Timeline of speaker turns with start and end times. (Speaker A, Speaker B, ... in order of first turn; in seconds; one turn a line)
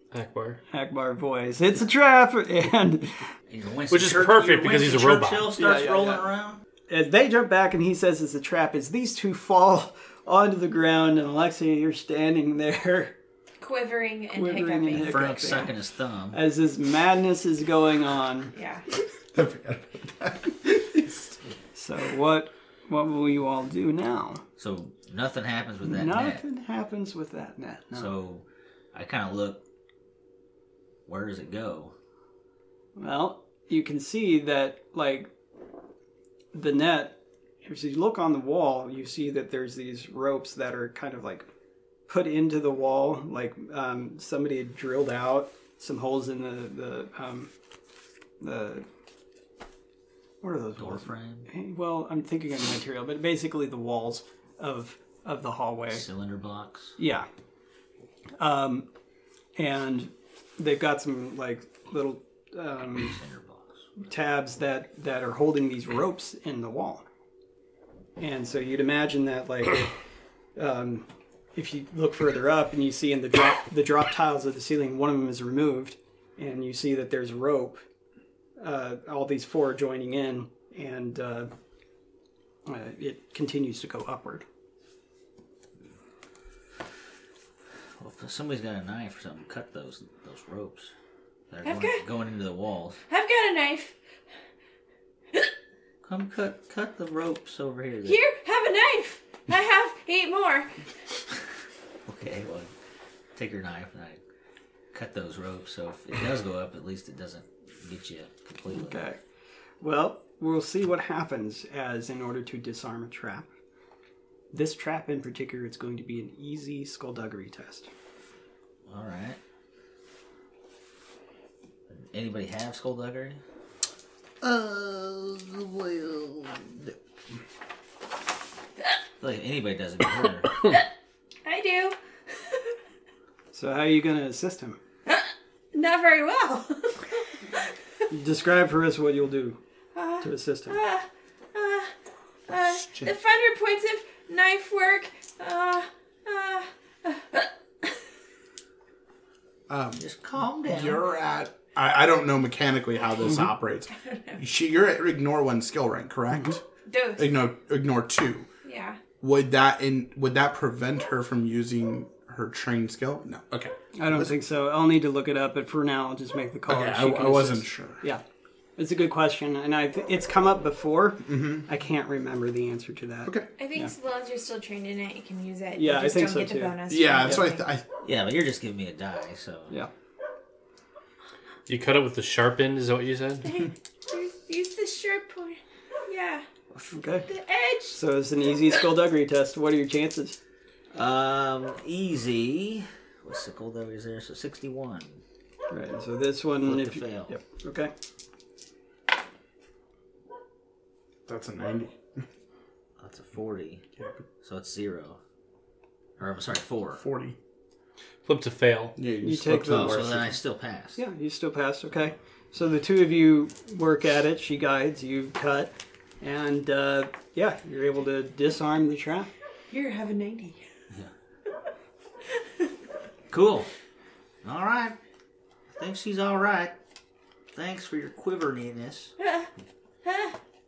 Speaker A: 0.1-0.6
Speaker B: 0.7-3.3
Speaker C: 3.5-6.6
Speaker A: 3.9-5.5
Speaker B: 5.5-6.3
Speaker B: 6.9-13.2
Speaker D: 13.6-15.6
Speaker B: 14.3-15.8
Speaker C: 14.9-16.4
Speaker B: 16.3-18.5
Speaker D: 18.5-18.8
Speaker E: 19.3-21.3
Speaker B: 21.8-24.4
Speaker C: 24.6-26.4
Speaker B: 25.9-28.1
Speaker C: 27.9-29.6
Speaker C: 31.1-31.9
Speaker B: 33.0-35.3
Speaker B: 36.5-41.5
Speaker B: 42.1-47.5
Speaker B: 48.4-48.9
Speaker B: 50.4-56.0
Speaker C: 50.8-51.5
Speaker C: 55.9-57.0
Speaker B: 57.0-57.3
Speaker B: 58.4-58.9
Speaker B: 59.6-63.2
Speaker C: 63.0-63.9
Speaker B: 64.0-67.0
Speaker B: 68.2-70.0
Speaker B: 70.6-77.8
Speaker B: 78.6-81.5
Speaker B: 82.7-84.4
Speaker C: 88.0-90.9
Speaker C: 91.5-93.0
Speaker D: 91.6-92.0
Speaker D: 93.1-94.0
Speaker C: 96.0-98.2
Speaker D: 98.0-100.7
Speaker C: 102.1-102.7
Speaker C: 103.3-104.2
Speaker C: 104.9-109.0
Speaker B: 108.7-109.2
Speaker B: 109.8-113.5
Speaker B: 114.5-117.9
Speaker C: 118.9-119.4
Speaker C: 121.9-123.4
Speaker C: 124.4-126.9
Speaker C: 129.2-130.7
Speaker D: 131.4-132.0
Speaker B: 133.5-134.8
Speaker D: 135.1-137.3
Speaker B: 138.1-139.6
Speaker D: 139.9-141.9
Speaker B: 140.2-140.8
Speaker D: 142.5-147.9
Speaker E: 142.6-143.1
Speaker E: 149.7-150.0
Speaker C: 150.0-151.1
Speaker E: 150.7-156.6
Speaker D: 154.1-154.4
Speaker D: 156.9-157.3
Speaker E: 157.2-158.5
Speaker D: 158.6-159.0
Speaker E: 159.2-164.3
Speaker B: 163.9-168.2
Speaker E: 166.7-168.0
Speaker B: 168.8-173.9
Speaker E: 171.2-171.7
Speaker D: 173.6-177.7
Speaker B: 175.8-177.4
Speaker E: 176.9-177.9
Speaker C: 178.0-179.7
Speaker A: 181.7-183.6
Speaker D: 183.4-186.4
Speaker B: 186.9-187.3
Speaker D: 187.3-188.0
Speaker B: 187.9-190.4
Speaker C: 190.9-195.2
Speaker B: 195.7-197.9
Speaker C: 196.7-197.4
Speaker E: 201.3-202.2
Speaker C: 203.0-203.8
Speaker C: 204.4-205.2
Speaker C: 206.2-207.0
Speaker E: 207.0-207.4
Speaker A: 208.2-209.0
Speaker E: 209.0-210.4
Speaker B: 209.2-210.1
Speaker C: 209.6-211.0
Speaker B: 211.0-219.3
Speaker D: 219.7-220.6
Speaker C: 223.3-223.7
Speaker C: 224.4-225.0
Speaker C: 225.7-226.8
Speaker C: 227.6-229.1
Speaker D: 230.1-230.3